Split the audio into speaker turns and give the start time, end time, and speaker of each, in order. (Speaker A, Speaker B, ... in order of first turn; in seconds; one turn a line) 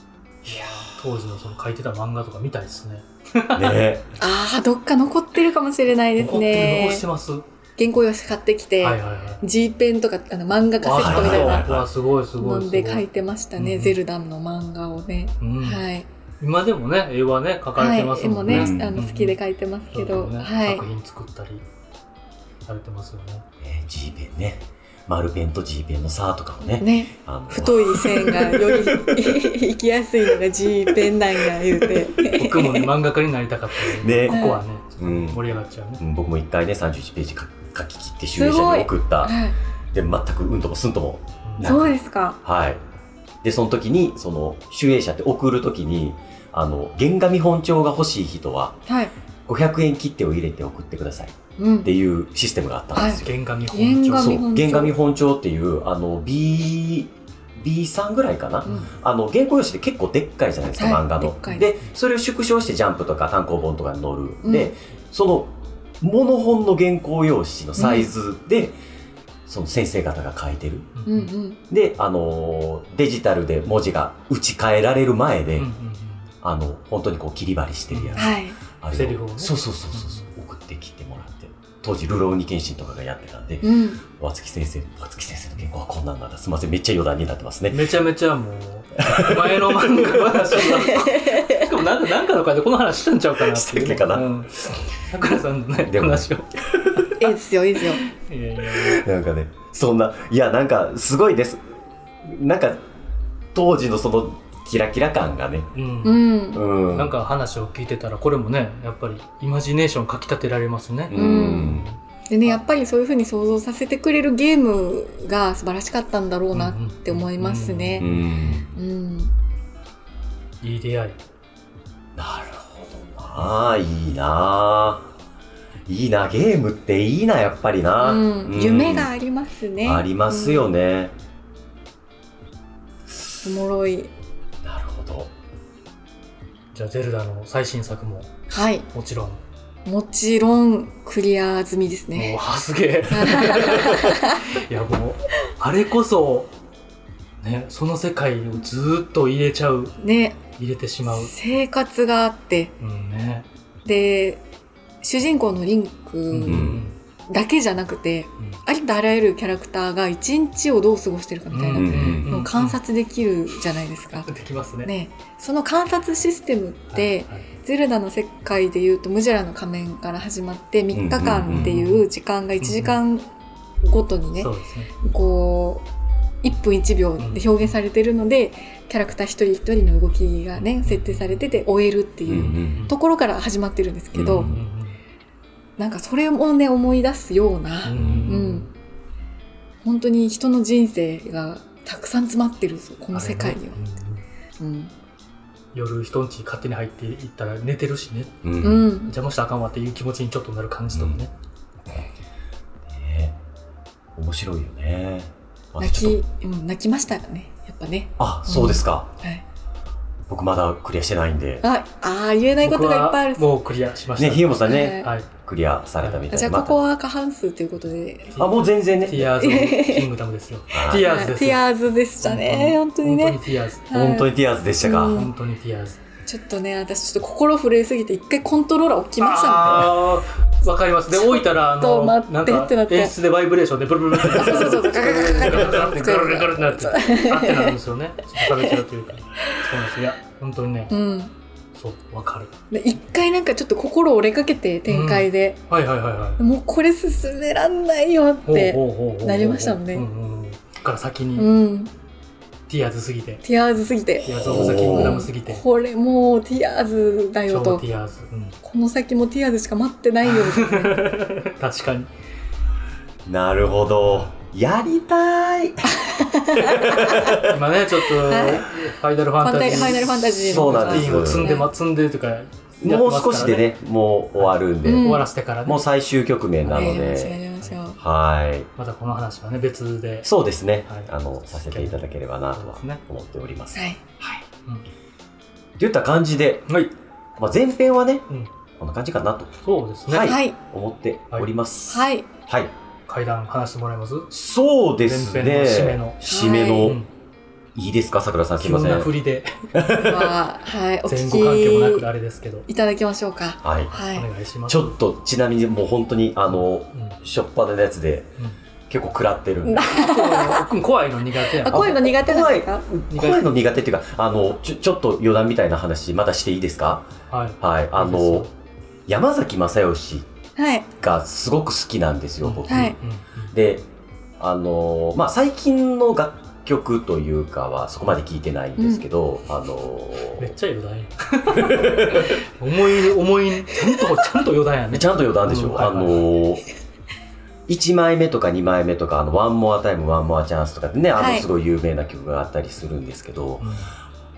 Speaker A: 0.4-1.1
Speaker B: 0.4-3.8
Speaker A: 3.5-4.1
Speaker C: 4.2-7.0
Speaker B: 6.2-7.4
Speaker C: 7.8-11.7
Speaker B: 8.8-9.4
Speaker B: 10.8-13.0
Speaker A: 11.0-11.9
Speaker C: 12.4-16.0
Speaker B: 13.6-14.0
Speaker B: 15.4-15.9
Speaker B: 16.4-19.4
Speaker C: 17.8-20.8
Speaker A: 18.5-19.0
Speaker B: 19.9-21.6
Speaker B: 22.6-23.4
Speaker A: 23.6-29.4
Speaker C: 26.8-32.9
Speaker A: 31.1-32.1
Speaker B: 32.3-36.0
Speaker A: 33.9-35.4
Speaker C: 34.3-34.6
Speaker A: 36.0-39.4
Speaker C: 38.4-39.5
Speaker A: 39.9-42.8
Speaker B: 41.4-41.9
Speaker C: 41.6-42.4
Speaker A: 43.4-48.8
Speaker C: 48.9-49.1
Speaker A: 49.5-53.3
Speaker C: 51.6-51.9
Speaker C: 52.9-55.0
Speaker B: 53.1-54.4
Speaker A: 54.1-68.8
Speaker C: 60.8-61.7
Speaker C: 64.4-64.7
Speaker C: 67.8-68.1
Speaker A: 69.5-70.9
Speaker B: 71.0-71.3
Speaker C: 71.0-71.6
Speaker A: 71.7-75.7
Speaker B: 75.5-76.3
Speaker A: 76.4-87.9
Speaker B: 77.9-78.3
Speaker C: 78.2-78.6
Speaker B: 78.9-80.2
Speaker C: 83.6-84.0
Speaker B: 87.7-97.3
Speaker A: 89.0-89.9
Speaker C: 91.0-91.7
Speaker A: 93.4-94.7
Speaker A: 95.8-97.0
Speaker C: 97.2-98.0
Speaker B: 97.9-99.0
Speaker A: 98.6-101.6
Speaker A: 102.2-102.8
Speaker A: 103.5-105.7
Speaker B: 105.7-106.3
Speaker C: 106.0-106.6
Speaker A: 106.5-107.2
Speaker B: 106.9-112.6
Speaker A: 111.1-111.9
Speaker C: 111.1-118.0
Speaker B: 116.5-118.4
Speaker A: 118.0-118.8
Speaker C: 118.7-119.3
Speaker B: 120.6-121.2
Speaker A: 122.2-125.1
Speaker A: 125.9-129.1
Speaker C: 128.0-130.7
Speaker A: 129.8-131.1
Speaker C: 133.4-134.1
Speaker A: 134.6-135.3
Speaker B: 136.7-138.3
Speaker C: 138.5-138.9
Speaker B: 138.9-139.4
Speaker C: 139.8-142.4
Speaker B: 142.1-146.5
Speaker C: 143.1-144.5
Speaker B: 147.4-149.9
Speaker C: 150.0-150.4
Speaker B: 150.6-151.3
Speaker C: 151.1-152.7
Speaker B: 152.8-153.4
Speaker C: 153.8-154.4
Speaker C: 155.0-164.3
Speaker B: 156.3-156.9
Speaker A: 156.4-156.8
Speaker B: 161.5-162.8
Speaker A: 161.7-162.3
Speaker B: 164.3-164.9
Speaker C: 164.8-173.2
Speaker B: 166.9-167.5
Speaker A: 170.9-171.7
Speaker B: 171.5-172.1
Speaker B: 172.6-173.0
Speaker C: 173.8-175.8
Speaker B: 174.4-174.9
Speaker C: 176.4-184.5
Speaker B: 177.2-177.8
Speaker B: 180.6-181.5
Speaker A: 182.3-182.9
Speaker B: 182.3-182.9
Speaker A: 184.1-184.6
Speaker B: 184.2-185.0
Speaker C: 185.8-188.7
Speaker B: 187.8-188.7
Speaker A: 187.9-188.4
Speaker C: 189.8-193.8
Speaker B: 193.1-194.2
Speaker C: 194.6-194.9
Speaker B: 195.7-201.3
Speaker A: 198.4-198.9
Speaker C: 198.6-199.1
Speaker A: 200.9-201.2
Speaker A: 202.8-203.4
Speaker A: 204.1-206.2
Speaker C: 205.8-209.4
Speaker A: 208.2-209.1
Speaker A: 210.3-211.6
Speaker C: 211.6-213.5
Speaker B: 212.6-215.3
Speaker A: 214.2-216.8
Speaker C: 214.6-215.1
Speaker C: 216.3-218.4
Speaker B: 218.3-221.6
Speaker A: 218.4-219.4
Speaker C: 219.4-220.1
Speaker A: 220.7-221.1
Speaker C: 220.9-225.3
Speaker B: 222.2-223.9
Speaker A: 223.9-225.3
Speaker B: 225.0-226.0
Speaker C: 226.2-230.0
Speaker B: 229.2-240.9
Speaker C: 231.1-233.1
Speaker C: 234.2-237.8
Speaker C: 238.4-238.8
Speaker C: 240.9-241.3
Speaker B: 241.7-242.5
Speaker C: 242.7-245.6
Speaker B: 244.9-246.4
Speaker C: 246.4-250.1
Speaker B: 248.4-251.5
Speaker C: 251.4-251.9
Speaker B: 252.7-253.4
Speaker C: 253.4-257.8
Speaker B: 254.2-255.6
Speaker A: 254.3-255.3
Speaker B: 257.5-258.6
Speaker C: 258.6-261.1
Speaker B: 260.2-262.1
Speaker A: 263.2-267.6
Speaker B: 264.0-264.3
Speaker C: 265.9-267.3
Speaker B: 267.4-273.7
Speaker C: 268.2-268.7
Speaker C: 269.4-271.7
Speaker A: 270.2-271.6
Speaker A: 272.8-277.4
Speaker B: 274.4-275.8
Speaker C: 274.8-275.3
Speaker B: 276.6-277.0
Speaker C: 276.7-278.0
Speaker A: 278.0-278.7
Speaker B: 278.8-280.3
Speaker A: 280.2-284.4
Speaker B: 280.9-282.0
Speaker B: 282.5-283.0
Speaker C: 283.7-284.0
Speaker A: 285.8-286.7
Speaker A: 287.4-288.2
Speaker A: 288.8-289.5
Speaker B: 289.6-290.4
Speaker A: 290.1-292.7
Speaker C: 290.2-290.6
Speaker C: 291.9-292.3
Speaker B: 293.1-294.3
Speaker A: 294.3-297.0
Speaker B: 295.1-296.2
Speaker C: 296.2-297.0
Speaker B: 296.8-297.1
Speaker A: 297.7-299.1
Speaker B: 298.6-300.1
Speaker A: 299.7-300.3
Speaker C: 300.0-302.1
Speaker B: 301.1-302.7
Speaker C: 302.7-304.3
Speaker A: 303.6-303.9
Speaker B: 303.9-304.9
Speaker A: 304.7-308.3
Speaker B: 306.5-307.2
Speaker A: 308.9-309.9
Speaker C: 309.6-310.7
Speaker B: 309.9-312.1
Speaker C: 311.5-312.9
Speaker A: 311.6-317.1
Speaker B: 313.1-313.4
Speaker B: 317.3-318.5
Speaker A: 317.6-318.5
Speaker A: 319.1-320.3
Speaker C: 320.6-320.9
Speaker A: 321.0-323.0
Speaker B: 322.4-323.5
Speaker C: 322.7-323.0
Speaker A: 323.5-323.9
Speaker A: 324.4-330.5
Speaker C: 328.8-329.0
Speaker B: 330.3-336.3
Speaker A: 331.5-332.4
Speaker A: 334.9-336.6
Speaker A: 337.7-343.7
Speaker C: 341.1-341.4
Speaker B: 343.6-343.9